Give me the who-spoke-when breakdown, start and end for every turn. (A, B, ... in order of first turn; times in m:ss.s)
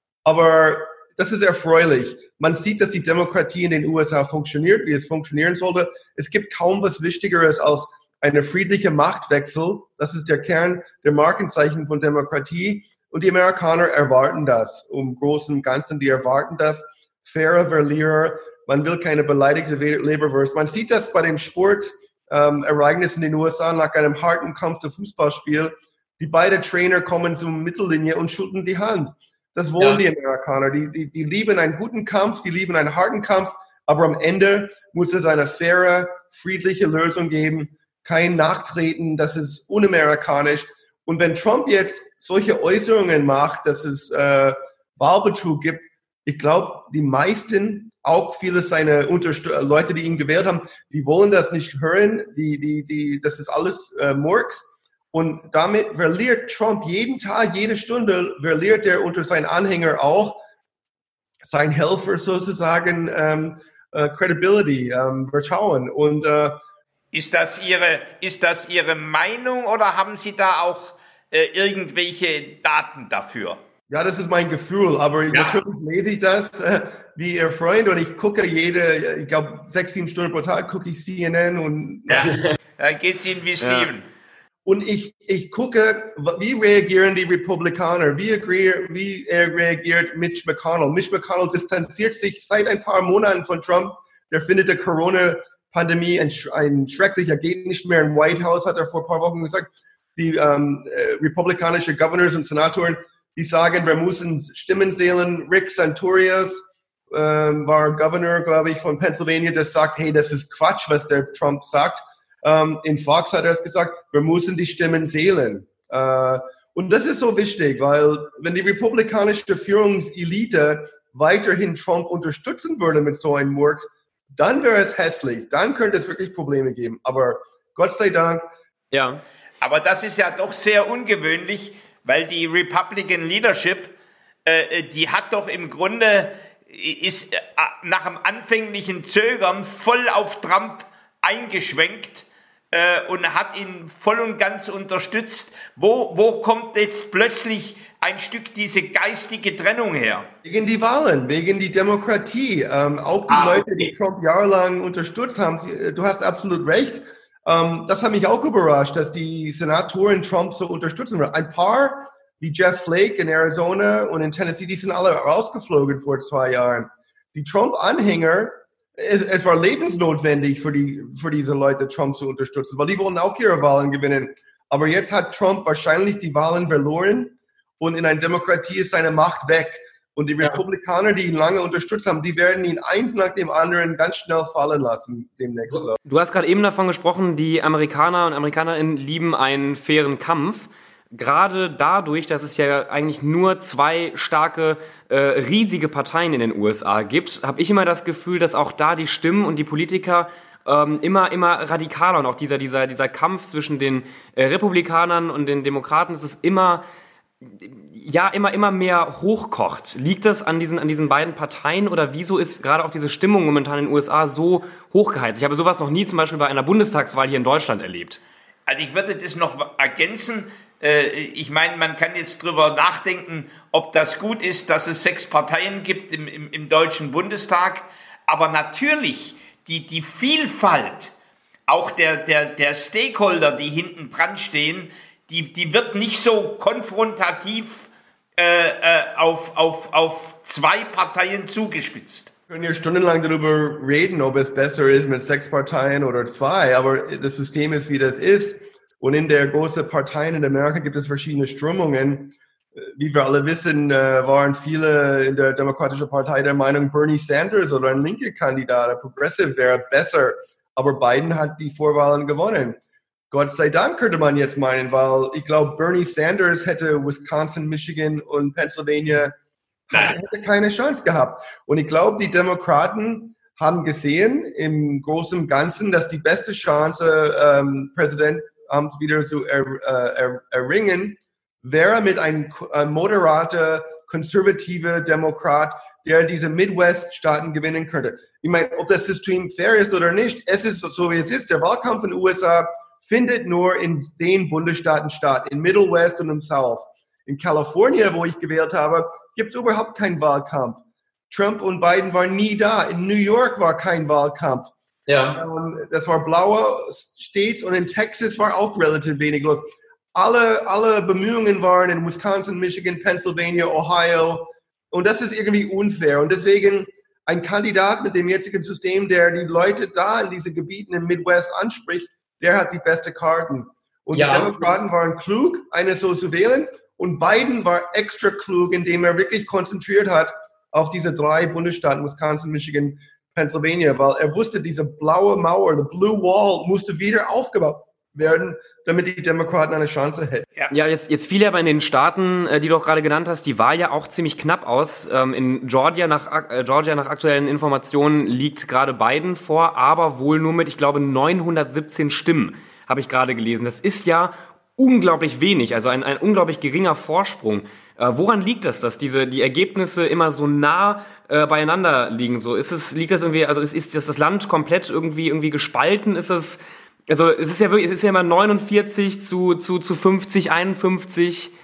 0:00.2-1:00.4 A
1:01.4-1:06.6 A
1:07.1-1:13.6 B
1:13.9-1:22.3 A
1:15.3-1:15.6 B
1:22.1-1:24.0 B
1:23.6-1:23.9 C
1:24.7-1:46.6 A
1:47.1-2:08.4 A
2:08.9-2:09.2 C
2:09.6-2:13.9 B
2:14.4-2:30.3 B
2:30.4-3:06.0 A
2:33.3-2:33.9 B
3:05.7-3:26.8 C
3:27.4-3:38.2 C
3:38.7-3:51.1 B
3:51.7-4:02.3 B
4:02.5-4:22.8 A
4:23.3-4:29.3 A
4:29.9-5:04.7 A
5:05.1-5:05.4 C
5:05.3-5:09.6 A
5:10.2-5:40.5 A
5:24.1-5:24.8 C
5:40.7-6:11.5 C